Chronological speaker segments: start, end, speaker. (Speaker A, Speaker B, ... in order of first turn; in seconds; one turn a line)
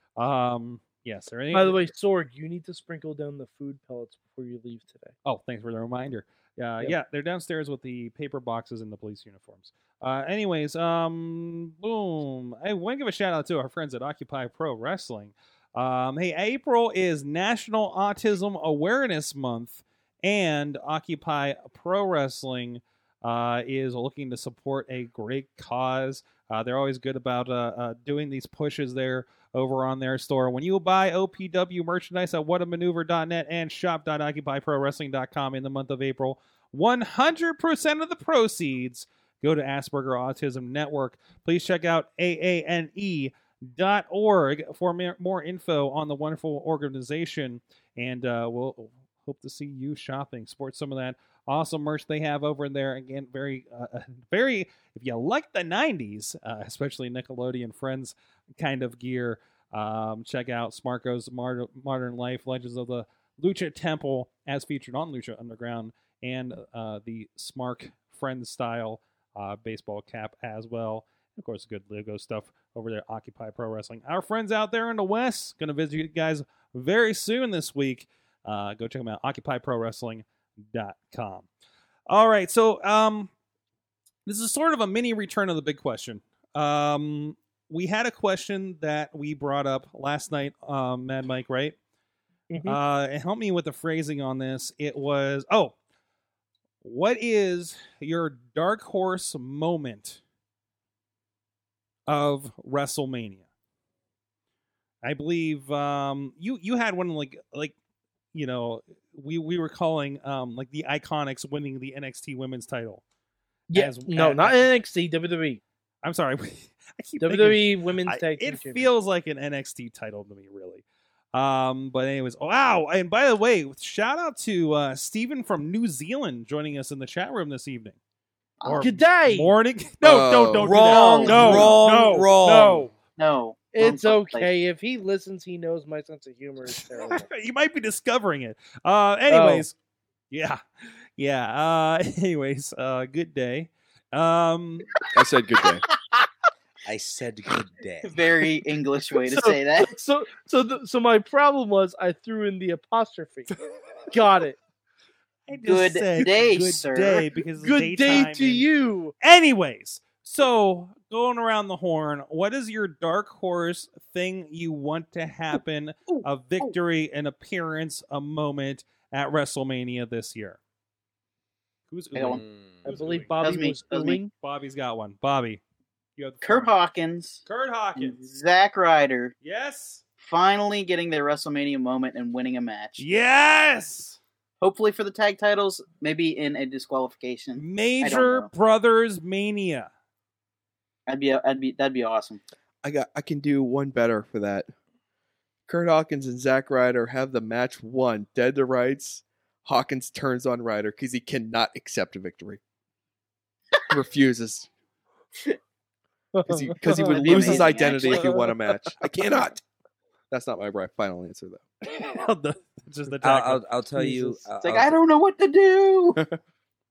Speaker A: 0.2-1.9
Speaker B: 1.5-5.1
Speaker A: 5.2-81.5
Speaker A: 82.1-83.3
Speaker A: 84.2-91.8
Speaker B: 92.5-92.8
Speaker A: 92.6-95.8
Speaker A: 96.8-100.2
Speaker A: 102.1-103.4
Speaker A: 105.0-107.7
Speaker A: 108.3-113.0
Speaker B: 113.7-115.6
Speaker A: 113.7-114.7
Speaker A: 116.0-128.0
Speaker B: 117.2-118.9
Speaker C: 128.6-128.9
Speaker A: 128.6-132.9
Speaker B: 128.8-129.5
Speaker D: 130.0-130.9
Speaker E: 130.6-132.9
Speaker C: 130.8-131.7
Speaker C: 133.2-134.5
Speaker B: 133.7-137.3
Speaker A: 136.7-139.7
Speaker B: 139.3-139.7
Speaker A: 140.3-140.6
Speaker A: 141.2-144.9
Speaker D: 145.1-145.8
Speaker E: 146.8-148.2
Speaker C: 148.0-149.9
Speaker B: 149.3-153.5
Speaker B: 154.1-154.6
Speaker A: 155.5-158.7
Speaker C: 155.6-157.2
Speaker B: 156.5-156.8
Speaker B: 157.5-159.1
Speaker A: 159.2-170.6
Speaker A: 171.9-173.3
Speaker C: 172.1-172.4
Speaker E: 172.2-172.8
Speaker B: 172.8-174.3
Speaker C: 173.4-174.2
Speaker A: 174.4-175.6
Speaker A: 176.2-176.7
Speaker C: 176.4-177.4
Speaker A: 177.4-178.2
Speaker C: 177.9-179.3
Speaker A: 179.4-180.0
Speaker C: 180.2-183.0
Speaker A: 183.0-184.2
Speaker C: 184.6-188.5
Speaker A: 187.6-189.9
Speaker C: 191.1-192.4
Speaker D: 192.8-194.7
Speaker D: 195.7-202.6
Speaker D: 203.9-204.7
Speaker B: 206.3-208.6
Speaker D: 206.4-209.6
Speaker C: 206.9-208.3
Speaker D: 210.3-211.6
Speaker A: 211.8-213.7
Speaker E: 213.2-215.0
Speaker B: 213.9-214.5
Speaker C: 214.6-216.2